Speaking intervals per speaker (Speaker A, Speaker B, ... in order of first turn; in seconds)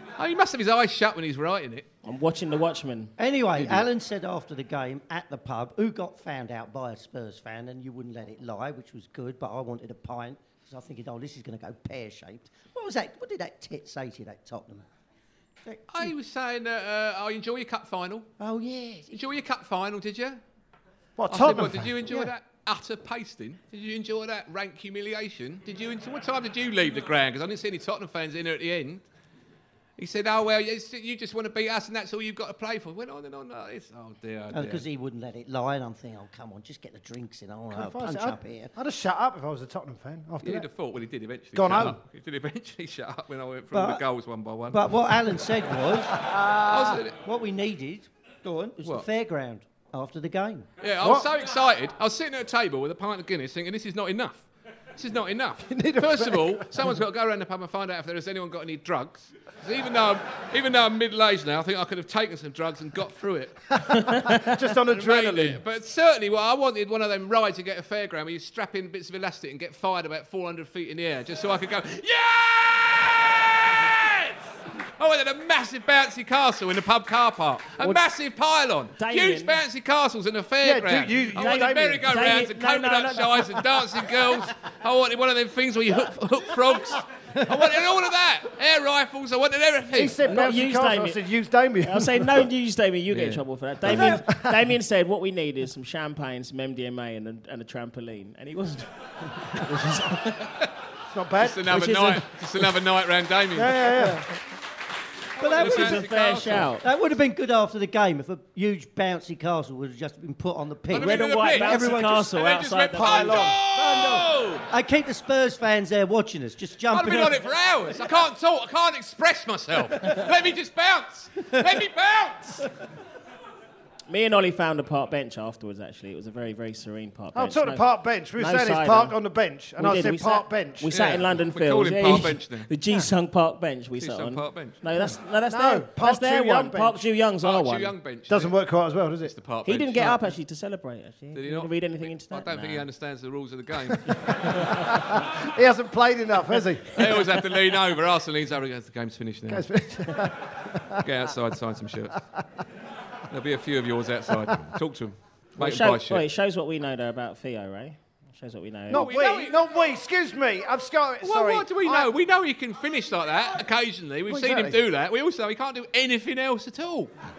Speaker A: 0.2-1.9, 15.9-18.3, 19.1-20.4, 21.3-29.1, 30.0-34.9, 40.4-44.9, 46.7-47.2, 48.8-49.1, 50.8-54.5, 55.0-63.8, 64.9-90.2, 93.1-94.1, 101.4-104.1, 105.4-106.7, 110.9-114.6, 116.9-122.7, 130.9-132.7, 134.0-134.8, 137.4-138.5, 139.3-140.3, 141.3-144.5, 146.9-149.7, 151.0-152.2, 153.3-156.2, 158.9-159.6, 161.2-167.1
Speaker B: 2.0-3.8, 79.0-79.6, 81.4-83.6, 90.2-91.2, 91.8-100.5, 101.7-102.4, 105.5-106.9, 110.9-113.5, 124.1-129.2, 129.8-137.9, 139.6-142.9, 155.6-159.1
Speaker C: 3.2-14.9, 15.6-16.1, 18.4-19.2, 34.5-38.7, 43.7-44.0, 44.7-46.2, 47.2-50.7, 105.4-112.3, 113.6-117.5
Speaker D: 21.2-22.3, 37.7-40.7, 41.5-42.0, 46.1-47.0, 51.0-51.3, 55.6-56.7, 63.8-65.6, 80.6-82.2, 89.9-92.5, 93.8-94.6, 101.1-102.1, 103.5-104.3, 113.0-113.6, 127.3-131.1, 135.5-137.0, 138.3-139.3, 144.1-147.4, 149.5-151.1, 158.9-162.1, 164.3-164.8